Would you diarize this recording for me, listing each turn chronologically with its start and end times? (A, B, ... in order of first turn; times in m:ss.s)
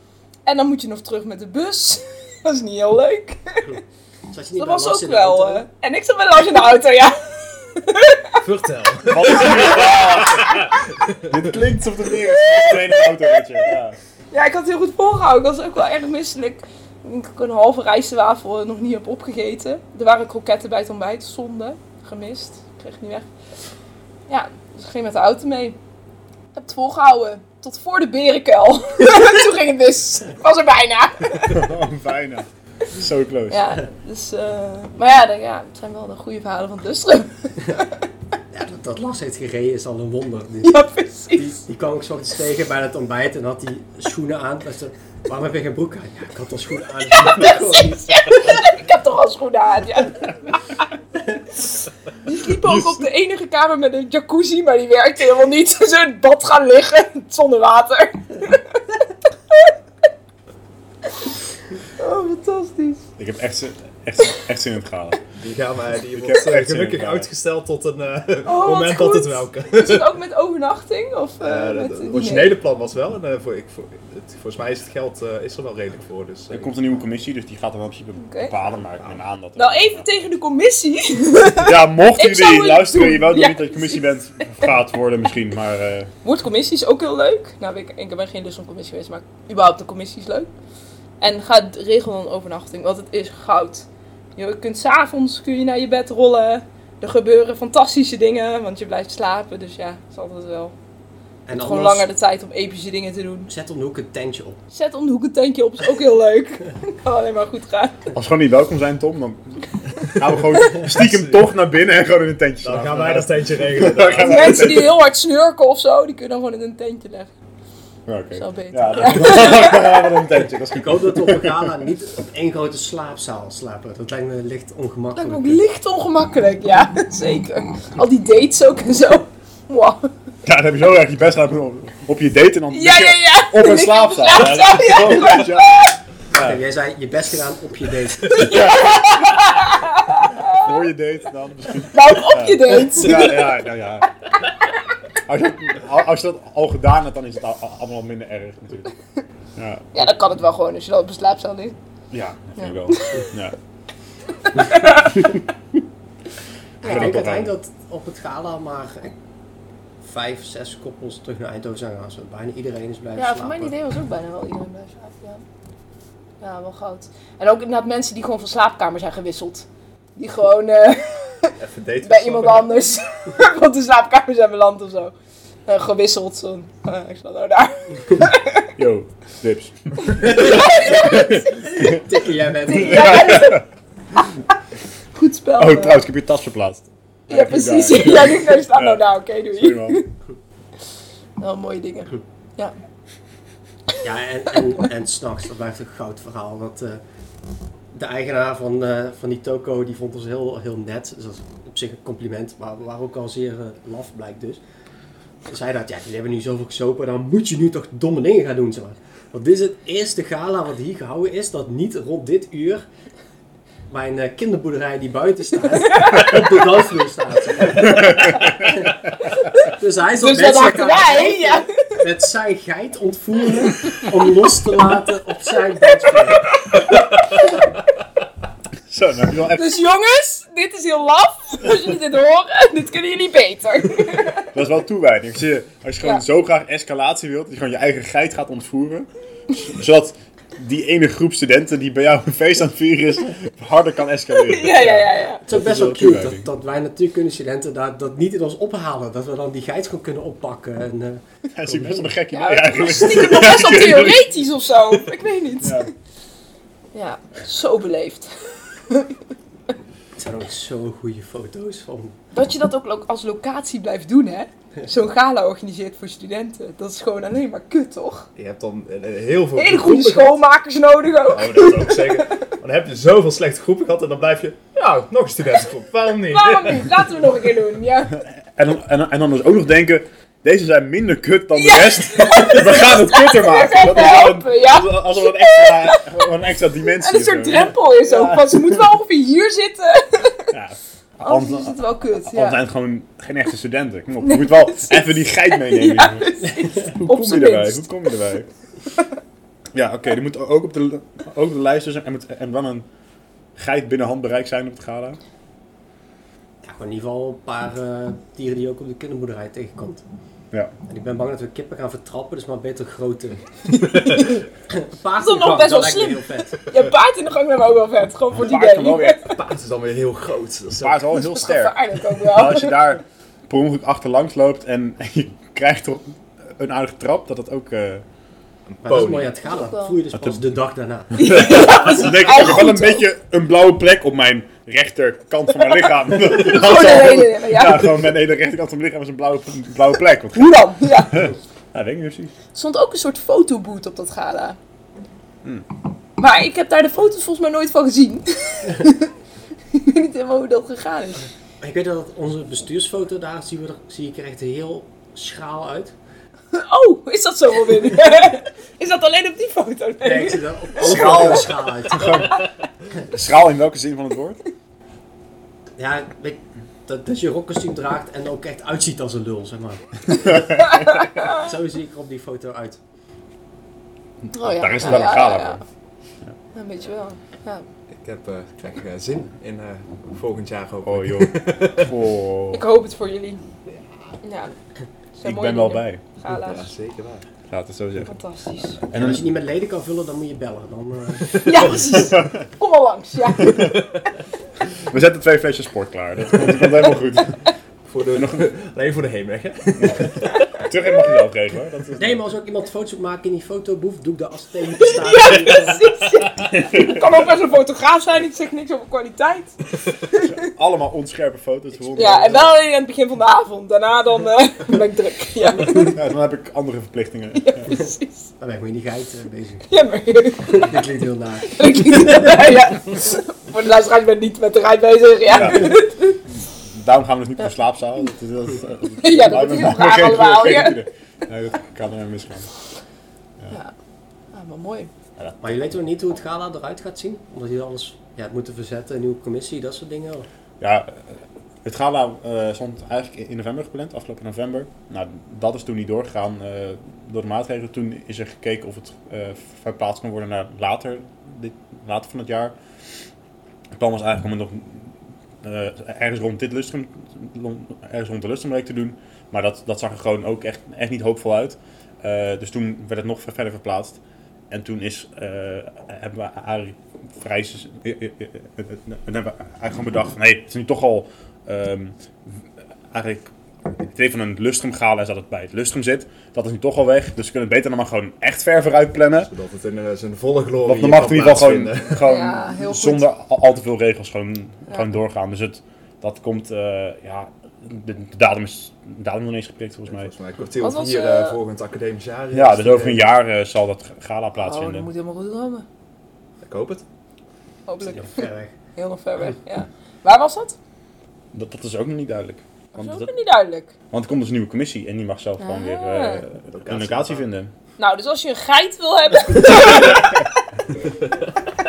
0:00.5-0:03.8 A
0:04.3-0:05.6 B
0:04.6-0:08.4 A
0:08.4-0:11.4 C
0:09.1-0:10.6 D
0:09.3-0:10.7 A
0:11.3-0:14.0 D
0:12.3-0:13.6 A
0:14.3-0:23.3 A
0:24.3-0:25.8 A
0:26.5-0:31.6 A
0:31.5-0:33.6 D
0:33.5-0:38.0 A
0:38.5-0:40.8 B
0:40.6-0:41.6 A
0:41.3-0:48.6 B
0:47.1-0:50.8 A
0:52.2-0:59.0 A
0:52.6-0:53.1 D
1:02.0-1:03.0 A
1:03.2-1:05.2 D
1:05.4-1:10.1 C
1:06.1-1:07.3 D
1:08.4-1:12.5 A
1:11.4-1:16.8 C
1:16.5-1:20.1 D
1:18.2-1:18.6 A
1:19.6-1:24.5 A
1:21.6-1:26.1 D
1:26.2-1:30.5 A
1:31.2-1:40.7 A
1:41.5-1:42.1 B
1:41.5-1:43.5 A
1:43.5-1:44.6 B
1:44.7-1:48.0 A
1:48.1-1:54.9 D
1:50.7-1:51.4 C
1:52.6-1:54.8 C
1:54.2-1:57.3 A
1:58.1-2:01.8 D
1:58.3-2:00.1 A
2:00.7-2:05.6 B
2:05.2-2:10.1 A
2:10.4-2:16.6 D
2:12.7-2:16.0 A
2:16.3-2:18.6 B
2:18.3-2:20.7 A
2:18.4-2:19.0 D
2:20.5-2:24.1 D
2:21.9-2:23.6 A
2:25.2-2:28.9 D
2:29.6-2:30.0 D
2:29.9-2:31.8 A
2:32.1-2:33.6 D
2:32.6-2:33.3 A
2:34.4-2:35.3 A
2:36.8-2:39.1 B
2:36.8-2:37.5 D
2:40.0-2:43.7 B
2:43.2-2:45.4 A
2:46.4-2:55.1 A
2:51.6-2:52.7 C
2:55.7-2:58.7 A
2:58.8-3:00.4 D
3:00.1-3:01.9 A
3:00.4-3:03.5 B
3:02.7-3:03.6 A
3:02.8-3:03.6 D
3:05.1-3:06.0 A
3:05.6-3:10.0 D
3:07.3-3:10.1 A
3:11.4-3:12.7 A
3:14.0-3:17.0 B
3:17.9-3:24.6 B
3:25.5-3:32.8 B
3:33.9-3:46.8 B
3:35.9-3:36.4 A
3:37.8-3:38.5 D
3:40.2-3:42.0 A
3:46.1-3:47.4 A
3:48.9-3:49.7 D
3:49.5-3:54.5 A
3:54.5-4:06.5 D
4:04.3-4:05.4 A
4:05.5-4:12.1 B
4:11.5-4:14.4 D
4:12.3-4:15.9 A
4:15.6-4:15.9 D
4:16.9-4:19.2 A
4:20.2-4:22.2 B
4:22.3-4:28.3 A
4:28.4-4:30.4 C
4:29.6-4:32.5 A
4:31.3-4:37.1 C
4:36.3-4:38.2 A
4:38.1-4:48.8 D
4:41.5-4:46.1 A
4:47.0-4:50.5 A
4:50.5-4:58.5 D
4:51.2-4:52.6 A
4:54.2-4:57.9 A
4:59.7-5:02.9 D
5:03.6-5:05.2 D
5:06.6-5:10.0 B
5:10.9-5:16.6 B
5:14.0-5:14.3 A
5:15.2-5:19.3 A
5:18.3-5:19.2 D
5:19.3-5:21.1 C
5:20.8-5:28.0 D
5:21.1-5:22.8 A
5:28.7-5:29.4 C
5:28.8-5:31.2 B
5:29.4-5:30.0 A
5:31.2-5:42.3 D
5:31.2-5:33.1 A
5:35.7-5:38.0 A
5:40.3-5:41.3 A
5:42.5-5:44.6 A
5:46.2-5:49.1 A
5:49.7-5:51.3 A
5:51.6-5:56.0 B
5:56.5-6:01.3 A
6:00.0-6:02.4 B
6:00.8-6:02.3 D
6:03.1-6:04.4 D
6:05.8-6:12.8 B
6:10.7-6:11.4 A
6:14.3-6:15.6 D
6:14.3-6:15.6 A
6:16.5-6:17.6 A
6:17.9-6:21.9 C
6:20.8-6:22.6 D
6:22.5-6:23.4 A
6:24.2-6:24.5 A
6:25.2-6:26.7 A
6:25.2-6:26.0 D
6:26.3-6:27.3 C
6:27.5-6:28.1 D
6:28.1-6:28.8 A
6:28.9-6:29.3 D
6:28.9-6:31.9 B
6:31.4-6:33.7 A
6:31.9-6:32.4 D
6:33.4-6:33.7 D
6:34.9-6:37.4 D
6:37.9-6:40.3 C
6:38.2-6:38.5 D
6:39.8-6:42.2 D
6:42.0-6:45.9 B
6:44.8-6:49.6 A
6:46.5-6:47.0 D
6:50.1-6:50.4 A
6:50.3-6:52.5 D
6:51.9-6:56.0 A
6:55.8-6:57.7 D
6:57.4-6:58.3 A
6:58.4-6:59.6 B
6:59.7-7:00.6 A
7:00.5-7:02.5 B
7:01.5-7:06.2 A
7:05.3-7:12.5 D
7:09.0-7:10.8 A
7:14.3-7:14.9 A
7:15.4-7:20.3 B
7:20.6-7:32.6 D
7:33.8-7:44.0 D
7:44.5-7:59.3 D
7:59.2-8:02.0 C
8:00.6-8:10.1 D
8:02.0-8:03.1 A
8:09.9-8:13.0 C
8:10.6-8:11.4 A
8:12.3-8:14.9 D
8:14.4-8:15.6 A
8:16.4-8:16.8 C
8:17.7-8:20.6 A
8:17.8-8:18.5 B
8:21.3-8:23.1 D
8:22.7-8:23.7 A
8:23.9-8:27.5 D
8:25.4-8:26.2 A
8:26.5-8:27.2 C
8:27.8-8:30.4 A